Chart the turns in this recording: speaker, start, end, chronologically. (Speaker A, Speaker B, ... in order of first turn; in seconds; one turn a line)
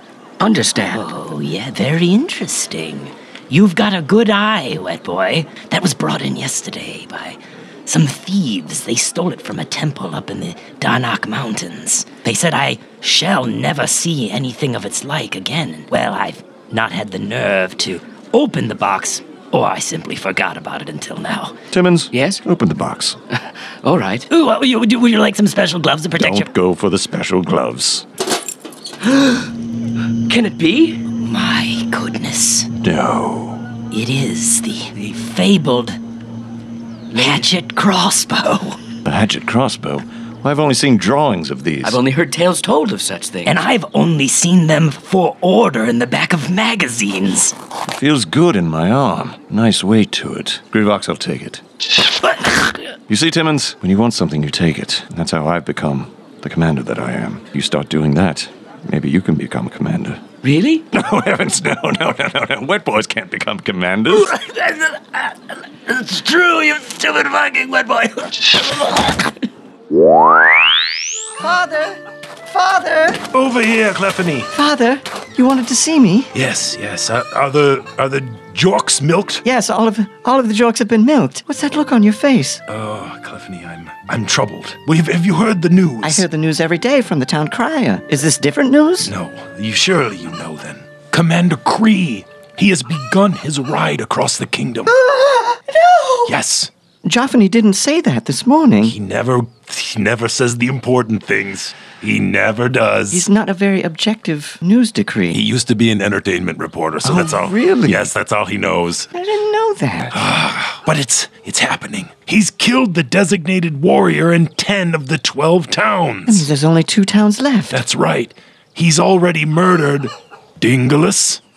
Speaker A: 0.4-1.1
Speaker B: 0.9-21.6
Speaker C: 21.7-23.2
Speaker A: 22.1-22.4
Speaker A: 23.8-24.3
Speaker B: 24.3-26.5
Speaker C: 26.1-28.1
Speaker A: 29.1-29.4
Speaker A: 30.3-31.0
Speaker B: 31.2-32.7
Speaker C: 32.8-33.6
Speaker B: 33.9-36.0
Speaker A: 37.1-37.5
Speaker B: 37.1-38.8
Speaker C: 39.0-42.0
Speaker A: 41.8-43.6
Speaker B: 43.5-47.6
Speaker C: 47.9-51.6
Speaker B: 52.4-52.8
Speaker C: 53.1-60.2
Speaker A: 60.4-60.9
Speaker C: 60.9-64.3
Speaker B: 64.2-68.5
Speaker D: 71.4-73.2
Speaker E: 73.3-74.5
Speaker D: 74.5-76.3
Speaker E: 76.3-79.4
Speaker D: 79.4-82.6
Speaker E: 82.7-86.3
Speaker D: 86.0-89.1
Speaker E: 89.0-94.9
Speaker D: 94.9-96.4
Speaker E: 96.3-96.7
Speaker D: 97.0-99.0
Speaker E: 98.8-103.3
Speaker D: 103.1-105.4
Speaker E: 105.3-109.1
Speaker C: 107.1-108.1
Speaker D: 109.1-110.2
Speaker E: 110.1-116.5
Speaker D: 116.3-117.8
Speaker E: 117.7-121.4